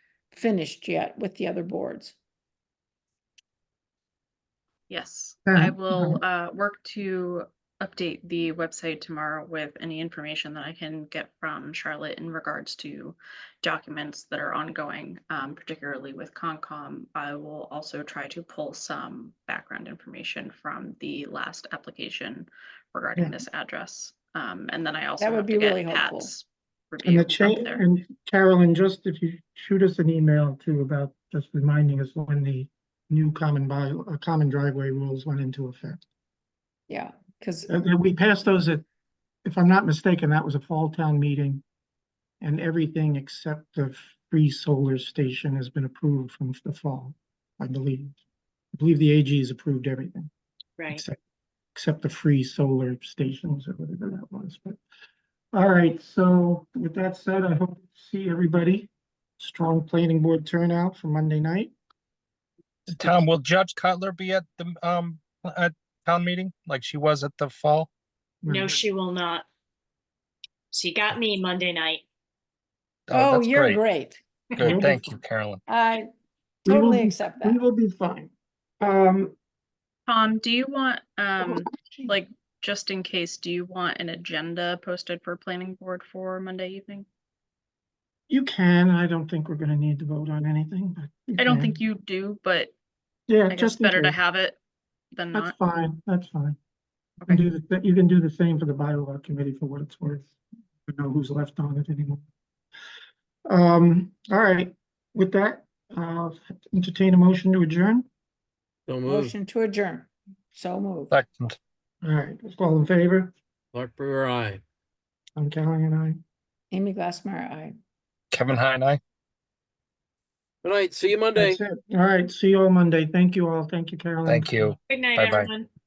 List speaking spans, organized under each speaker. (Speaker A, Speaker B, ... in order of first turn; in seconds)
Speaker A: 0.3-2.2, 25.2-26.3, 36.9-37.7, 73.1-74.2, 75.7-76.1, 76.7-77.6, 109.0-111.1, 116.7-117.7
Speaker B: 4.9-27.9, 80.1-87.1, 91.4-92.7, 93.5-94.6, 95.1-95.5
Speaker C: 5.5-6.2, 23.2-23.4, 27.0-36.0, 37.7-38.8, 39.4-41.6, 42.4-48.2, 48.8-50.3, 50.9-51.2, 51.7-54.8, 55.5-61.7, 68.4-68.8, 74.6-75.1, 76.6-79.3, 81.4-82.2, 88.3-91.8, 93.3-94.2, 95.3-96.6, 97.3-100.3, 100.9-102.2, 103.5-108.0, 112.0-113.3, 115.4-116.2, 121.3-124.8
Speaker D: 50.8-51.0, 68.5-69.5, 70.7-72.0, 124.9-125.7
Speaker E: 62.9-67.9, 73.1-73.8, 74.6-75.6, 111.1-111.6, 118.3-119.0, 124.2-125.5
Speaker F: 108.9-109.3, 113.7-114.6, 120.6-121.6